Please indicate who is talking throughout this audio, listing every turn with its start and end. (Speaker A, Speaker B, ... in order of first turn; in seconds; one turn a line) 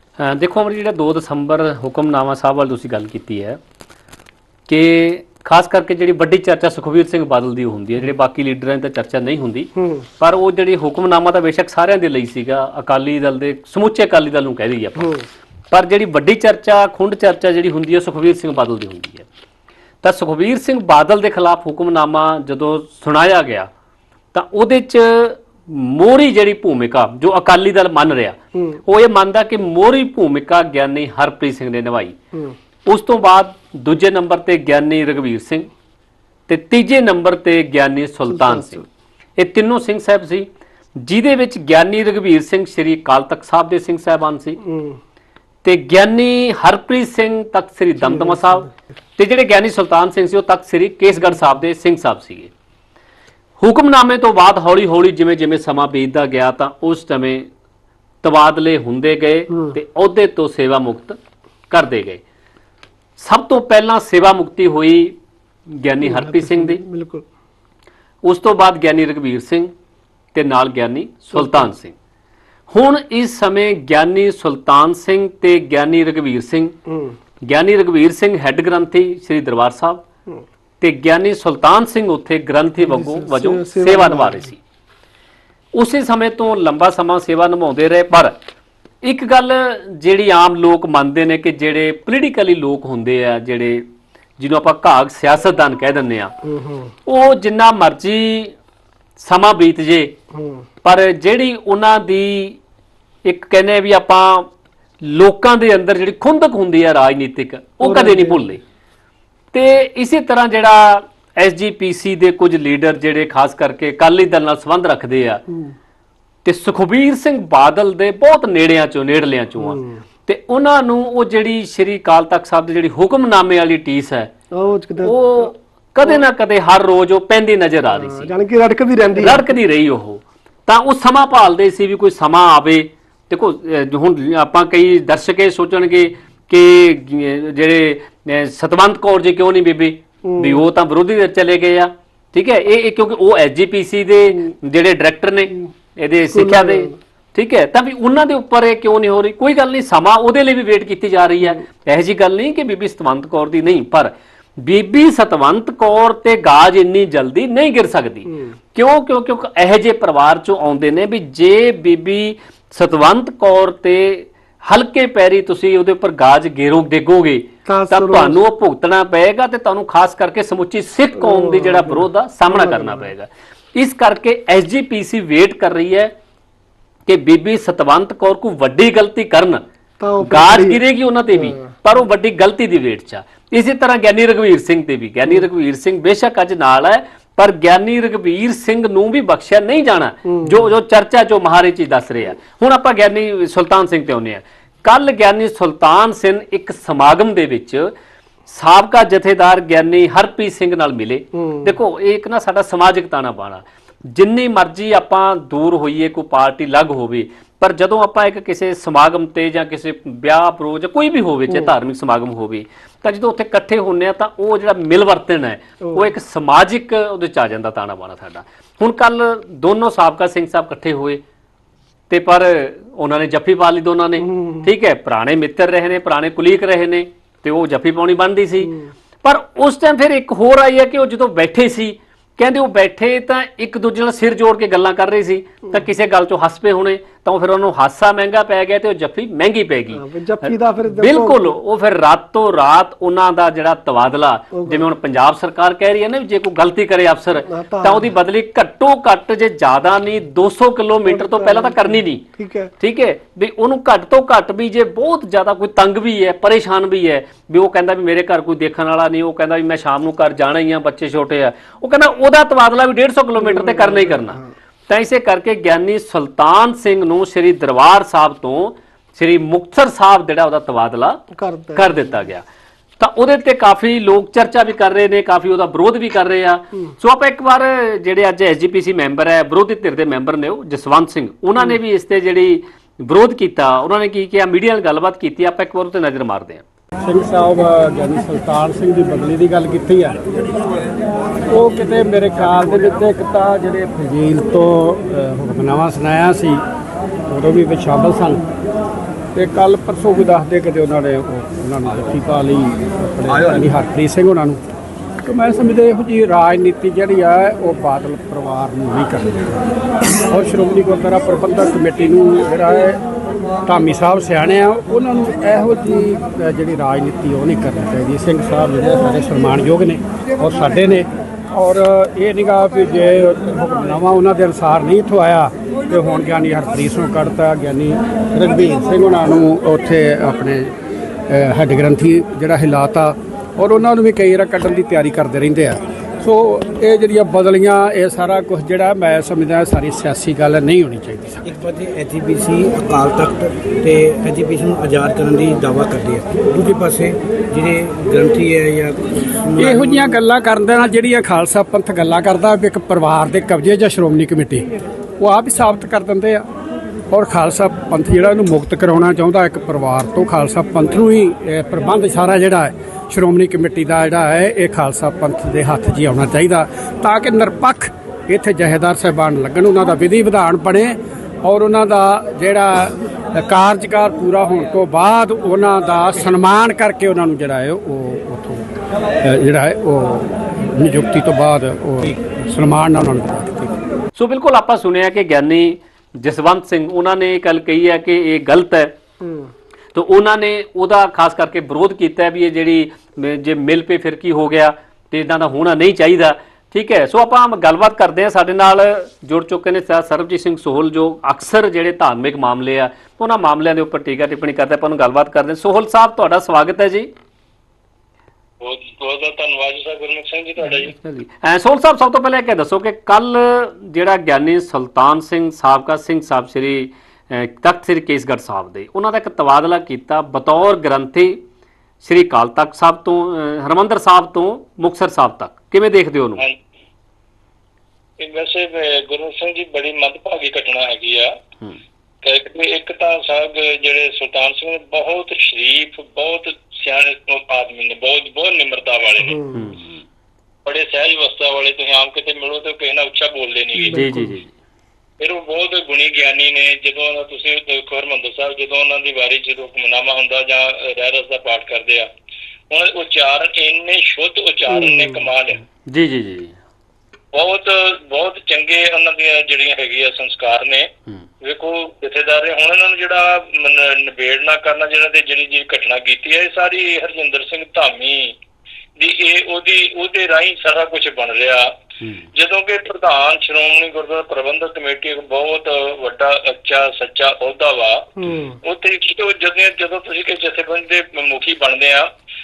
Speaker A: 0.2-3.6
Speaker A: 4.7-15.1
Speaker B: 9.8-10.0
Speaker A: 15.7-19.3
Speaker A: 20.0-23.7
Speaker A: 24.3-32.1
Speaker B: 28.5-28.8
Speaker A: 32.9-35.7
Speaker A: 36.5-38.8
Speaker B: 38.3-38.8
Speaker A: 39.4-44.6
Speaker B: 44.6-45.0
Speaker A: 45.6-52.5
Speaker B: 48.0-48.6
Speaker A: 53.6-57.5
Speaker A: 58.2-61.2
Speaker A: 61.7-62.2
Speaker A: 63.2-65.2
Speaker A: 65.7-66.8
Speaker B: 66.0-67.2
Speaker A: 68.2-69.7
Speaker A: 70.3-71.9
Speaker B: 71.3-71.7
Speaker A: 72.7-76.7
Speaker B: 76.9-77.2
Speaker A: 77.4-80.0
Speaker A: 80.8-84.6
Speaker B: 82.8-84.5
Speaker A: 85.7-88.3
Speaker A: 89.0-93.8
Speaker A: 94.4-96.3
Speaker B: 96.4-96.9
Speaker A: 97.0-98.5
Speaker A: 99.2-100.1
Speaker B: 100.3-100.7
Speaker A: 100.8-102.6
Speaker A: 103.2-104.5
Speaker A: 105.0-108.6
Speaker B: 107.8-108.6
Speaker A: 109.5-115.4
Speaker B: 115.5-115.7
Speaker A: 116.4-124.3
Speaker B: 119.6-120.0
Speaker B: 124.5-125.5
Speaker A: 125.0-128.3
Speaker B: 127.9-129.5
Speaker A: 129.1-176.1
Speaker B: 140.2-140.7
Speaker B: 146.3-147.0
Speaker B: 158.3-158.5
Speaker B: 167.6-168.4
Speaker B: 171.2-173.1
Speaker A: 177.1-179.6
Speaker B: 180.0-181.7
Speaker A: 180.2-197.9
Speaker B: 190.3-190.7
Speaker A: 198.5-221.2
Speaker B: 201.3-201.7
Speaker B: 215.8-216.1
Speaker A: 222.1-252.2
Speaker B: 224.2-224.7
Speaker B: 228.6-228.9
Speaker B: 239.9-241.6
Speaker B: 244.5-244.9
Speaker B: 247.5-248.1
Speaker B: 251.1-252.7
Speaker A: 252.8-271.2
Speaker B: 263.4-264.5
Speaker B: 271.3-272.2
Speaker A: 271.7-272.4
Speaker A: 273.0-286.6
Speaker C: 287.0-290.2
Speaker C: 291.5-296.6
Speaker C: 297.3-298.4
Speaker C: 299.3-304.6
Speaker C: 305.2-309.6
Speaker C: 310.3-313.0
Speaker C: 313.6-330.7
Speaker C: 331.3-341.4
Speaker D: 341.4-350.1
Speaker C: 349.6-354.6
Speaker C: 355.2-356.4
Speaker C: 357.1-383.8
Speaker A: 384.1-388.9
Speaker B: 389.2-389.5
Speaker A: 389.9-407.1
Speaker E: 408.6-410.9
Speaker A: 410.6-421.4
Speaker A: 422.0-426.4
Speaker E: 428.2-431.3
Speaker E: 432.2-439.4
Speaker B: 439.2-439.7
Speaker A: 439.5-440.0
Speaker E: 440.6-444.0
Speaker B: 443.8-444.4
Speaker A: 443.9-444.6
Speaker E: 445.2-452.1
Speaker E: 452.7-455.6
Speaker B: 454.7-455.2
Speaker A: 455.9-456.6
Speaker E: 457.3-460.9
Speaker E: 461.4-468.3
Speaker E: 469.0-471.7
Speaker E: 472.3-482.1
Speaker B: 478.2-478.6